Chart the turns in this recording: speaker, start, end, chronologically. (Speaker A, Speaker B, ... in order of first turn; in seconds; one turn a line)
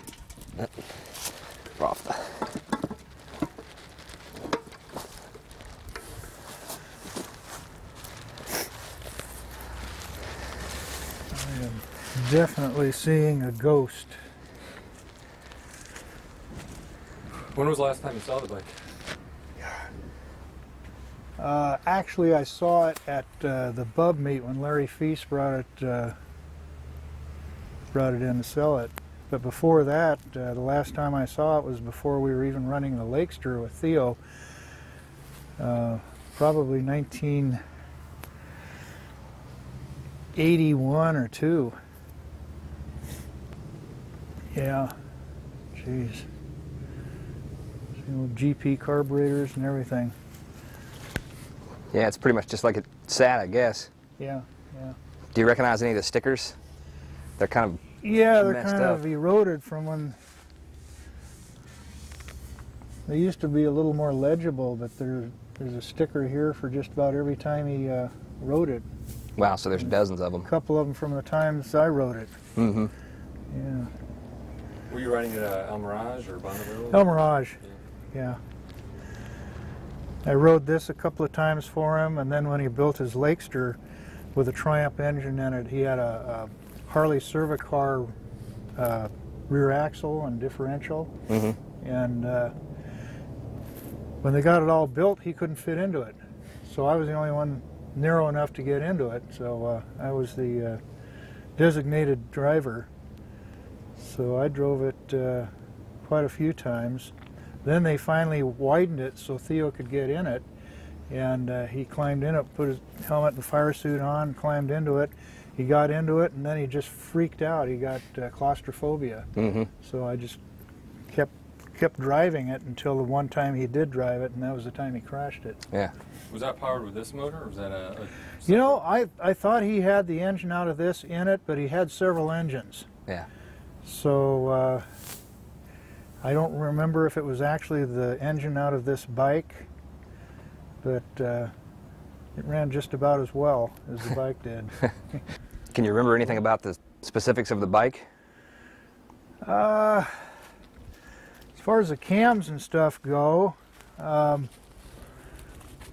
Speaker A: 0.6-1.0
Speaker A: 1.7-2.5
Speaker B: 11.3-14.2
Speaker C: 17.5-18.7
Speaker B: 19.6-19.9
Speaker B: 21.4-26.1
Speaker B: 27.9-34.2
Speaker B: 35.6-37.6
Speaker B: 40.3-41.8
Speaker B: 44.5-44.9
Speaker B: 45.7-46.3
Speaker B: 48.0-50.1
Speaker A: 51.9-53.9
Speaker B: 54.2-55.0
Speaker A: 55.3-56.6
Speaker A: 57.4-59.0
Speaker B: 58.0-60.2
Speaker B: 63.1-68.8
Speaker A: 69.4-70.5
Speaker B: 70.4-72.4
Speaker A: 72.5-72.9
Speaker B: 73.5-73.9
Speaker C: 74.9-77.8
Speaker B: 76.9-77.6
Speaker B: 78.1-78.4
Speaker B: 80.2-83.8
Speaker B: 84.3-88.2
Speaker B: 88.8-91.1
Speaker A: 91.3-91.6
Speaker B: 91.8-92.5
Speaker B: 94.2-100.8
Speaker B: 101.6-102.9
Speaker B: 104.0-105.5
Speaker B: 106.0-107.1
Speaker B: 107.6-110.4
Speaker B: 111.1-120.4
Speaker A: 119.3-119.7
Speaker B: 121.1-125.7
Speaker C: 126.3-128.8
Speaker B: 128.4-132.9
Speaker B: 133.8-134.9
Speaker B: 136.2-139.7
Speaker B: 140.8-141.5
Speaker B: 142.3-144.8
Speaker A: 145.7-148.1
Speaker B: 149.4-150.4
Speaker B: 151.5-154.5